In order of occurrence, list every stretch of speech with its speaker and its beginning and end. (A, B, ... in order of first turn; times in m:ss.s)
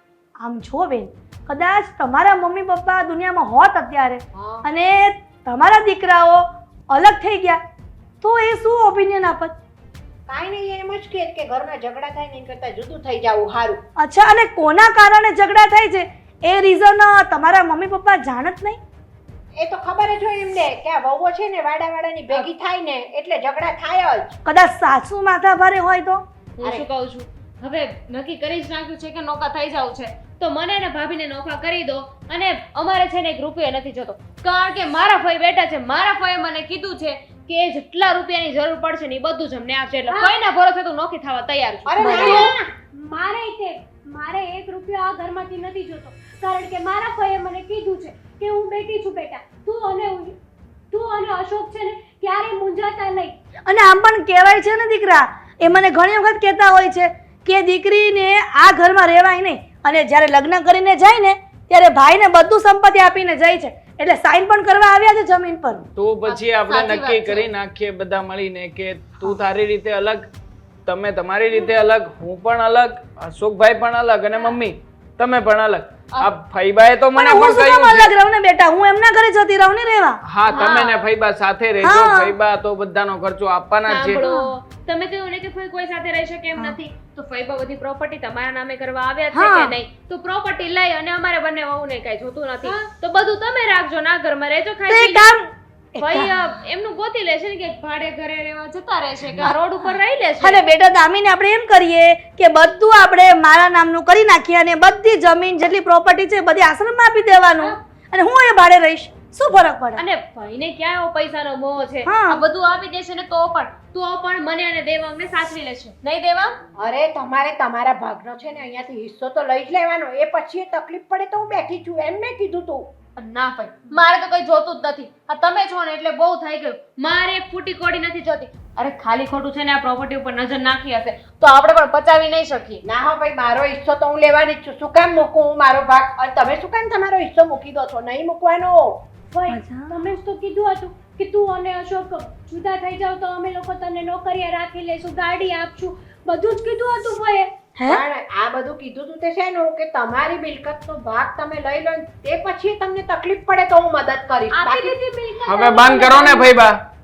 0:00.4-0:07.6 A
0:04.3-0:04.6 B
0:08.2-0:09.5 A
0:10.3-0:13.8 B
0:14.0-0:18.8 A
0:19.6-0:24.4 B
0:24.4-0:26.2 A
0:26.6-0:42.5 C
0:41.8-0:42.7 B
0:42.0-0:50.4 D
0:50.9-0:53.3 D
0:53.7-1:05.8 A
1:06.0-1:10.3 E
1:06.3-1:07.5 C
1:10.8-1:18.1 E
1:17.1-1:20.2 A
1:20.2-1:24.2 E
1:20.5-1:21.0 C
1:21.8-1:22.3 A
1:23.9-1:35.3 C
1:29.3-1:29.7 A
1:32.6-1:32.9 D
1:34.9-1:35.4 A
1:36.0-1:36.3 A
1:36.0-1:40.6 C
1:40.4-1:50.0 A
1:50.0-1:56.6 C
1:52.0-1:52.4 A
1:56.8-2:02.9 B
2:03.2-2:12.8 C
2:12.8-2:19.0 B
2:19.3-2:27.5 D
2:19.5-2:19.9 A
2:27.8-2:35.0 B
2:34.5-2:36.5 D
2:35.4-2:36.8 E